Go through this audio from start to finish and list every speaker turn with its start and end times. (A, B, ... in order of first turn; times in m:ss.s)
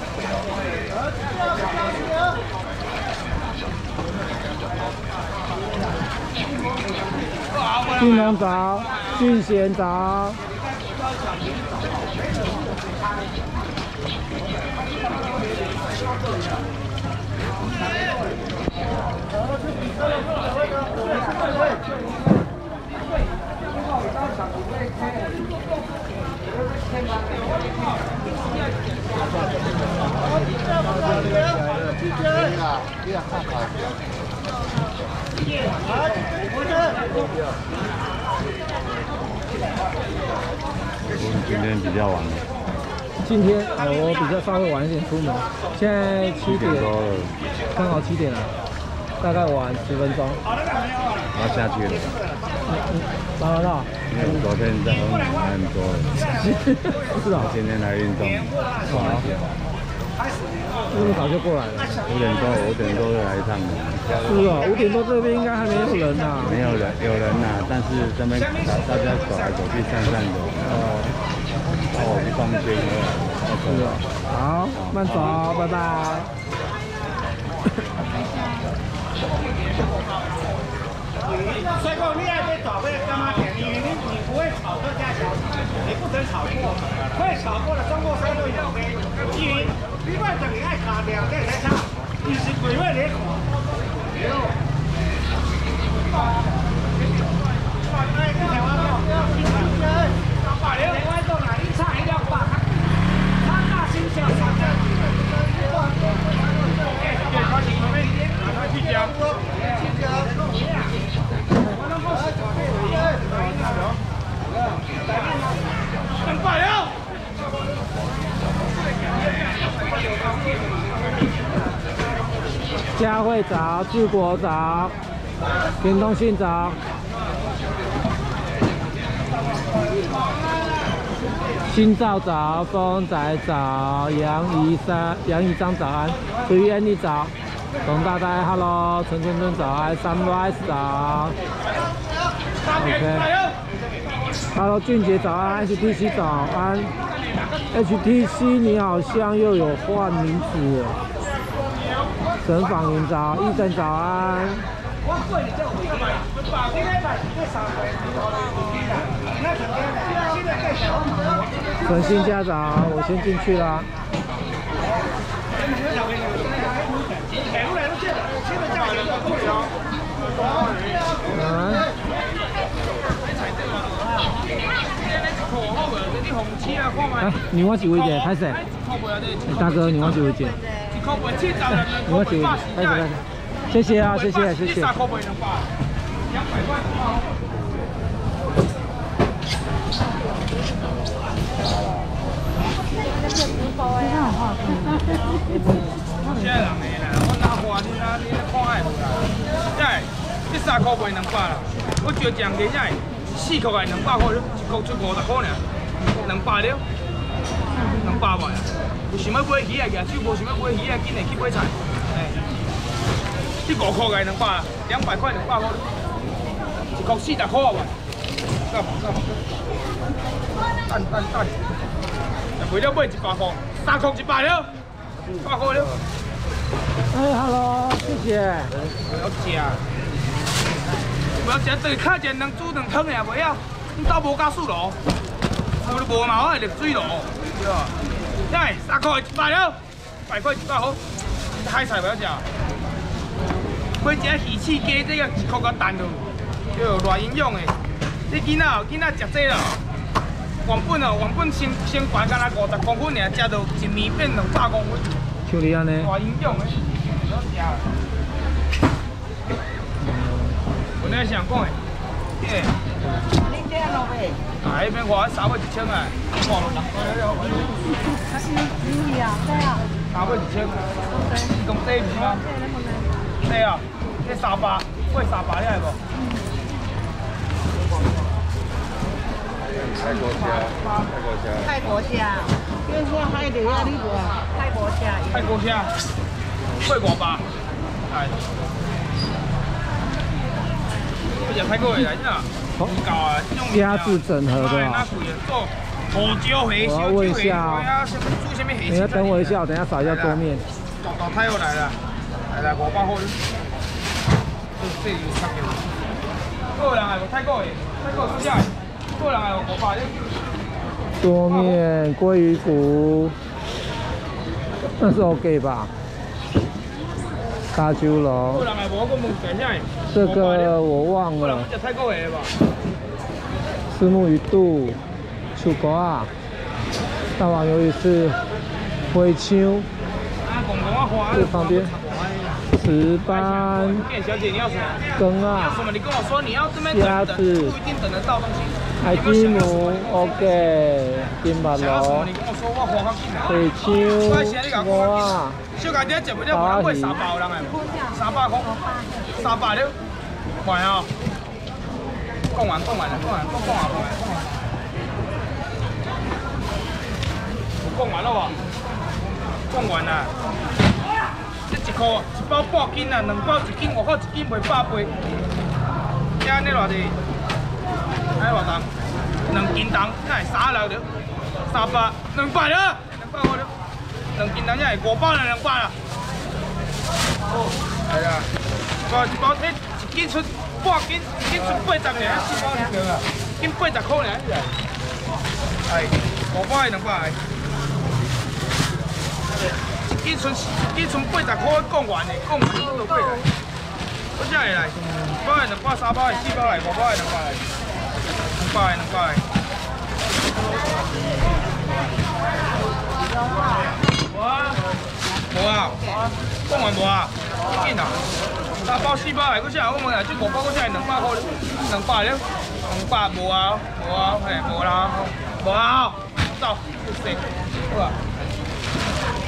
0:07.5-0:09.2 A
0:08.0-0:10.4 B
0:27.2-0:27.8 A
0:41.1-0:42.5 C
0:43.2-0:46.9 B
0:46.4-0:47.4 C
0:47.7-0:48.5 B
0:49.2-0:50.4 B
0:51.3-0:52.2 C
0:52.7-0:54.3 B
0:54.1-0:56.4 C
0:56.2-0:57.5 B
0:57.3-0:59.5 C
0:58.8-0:59.2 B
1:00.9-1:02.0 B
1:02.0-1:04.6 C
1:04.2-1:06.6 B
1:06.4-1:11.1 C
1:10.6-1:11.2 B
1:11.9-1:14.0 C
1:13.6-1:16.3 B
1:14.7-1:15.6 C
1:19.2-1:20.7 A
1:21.2-1:25.2 A
1:25.9-1:31.5 A
1:32.3-1:33.0 A
1:38.1-1:39.7 A
1:40.4-1:42.5 A
1:43.6-1:44.7 A
1:47.0-1:49.3 A
1:52.2-1:53.9 A
1:56.2-1:56.9 A
1:59.4-2:00.6 A
2:03.0-2:04.9 B
2:05.8-2:06.8 B
2:11.6-2:17.3 B
2:17.8-2:21.4 B
2:22.6-2:23.6 A
2:22.7-2:23.3 B
2:24.5-2:26.9 B
2:27.2-2:27.6 A
2:27.7-2:31.0 B
2:32.4-2:34.6 B
2:35.1-2:37.2 A
2:41.8-2:43.9 B
2:47.3-2:49.7 A
2:51.3-2:51.8 B
2:53.2-2:54.3 A
2:54.9-3:00.2 A
2:57.2-2:58.6 B
2:59.5-3:00.6 B
3:00.9-3:03.1 A
3:02.0-3:04.9 B
3:03.9-3:05.7 A
3:06.3-3:07.2 A
3:13.6-3:14.8 D
3:16.2-3:25.6 A
3:26.2-3:26.8 A
3:27.9-3:32.4 A
3:33.6-3:35.8 A
3:36.9-3:37.9 A
3:38.7-3:39.3 A
3:40.9-3:41.5 A
3:42.6-3:44.7 A
3:45.4-3:45.9 A
3:47.1-3:48.7 B
3:49.1-3:49.8 A
3:51.4-3:55.0 A
3:55.8-3:57.9 A
3:58.5-4:01.0 A
4:01.6-4:02.4 A
4:04.0-4:07.7 A
4:08.3-4:09.8 A
4:10.6-4:15.1 A
4:15.5-4:16.1 B
4:16.0-4:17.9 A
4:20.0-4:20.6 B
4:21.0-4:21.8 A
4:22.4-4:22.7 A
4:23.5-4:24.3 D
4:24.6-4:27.7 A
4:28.5-4:29.8 D
4:30.1-4:30.9 A
4:31.4-4:32.4 A
4:32.5-4:33.1 D
4:33.4-4:36.0 A
4:39.8-4:41.8 C
4:40.5-4:41.1 A
4:41.8-4:45.4 D
4:45.3-4:45.9 A
4:46.8-4:47.4 A
4:48.1-4:48.4 A
4:51.4-5:00.4 A
4:53.7-4:55.1 B
4:56.8-4:57.9 B
4:58.9-5:00.6 B
5:01.0-5:02.0 A
5:02.5-5:03.4 A
5:04.8-5:05.8 A
5:06.7-5:10.2 A
5:11.2-5:13.3 B
5:11.5-5:11.8 A
5:15.0-5:15.9 B
5:17.7-5:18.6 B
5:18.5-5:20.8 A
5:20.1-5:21.7 B
5:21.4-5:22.5 A
5:23.9-5:25.0 B
5:25.5-5:26.3 B
5:27.4-5:28.4 B
5:29.1-5:29.9 B
5:30.4-5:32.6 A
5:31.3-5:31.9 B
5:32.7-5:34.0 B
5:33.2-5:40.7 A
5:35.2-5:35.8 B
5:36.8-5:37.7 B
5:39.0-5:42.3 B
5:41.7-5:43.6 A
5:43.4-5:45.6 B
5:44.2-5:49.9 A
5:46.5-5:47.2 B
5:50.6-5:51.1 A
5:52.5-5:54.5 A
5:57.8-5:58.6 A
5:59.7-6:00.3 A
6:01.7-6:05.1 A
6:06.4-6:07.2 A
6:08.4-6:08.9 A
6:09.5-6:11.0 A
6:11.7-6:13.7 A
6:14.3-6:15.9 A
6:18.1-6:18.5 A
6:19.1-6:24.8 A
6:25.9-6:27.4 A
6:30.2-6:33.5 A
6:34.4-6:37.6 A
6:38.6-6:39.4 A
6:45.5-6:48.2 A
6:48.8-6:58.2 A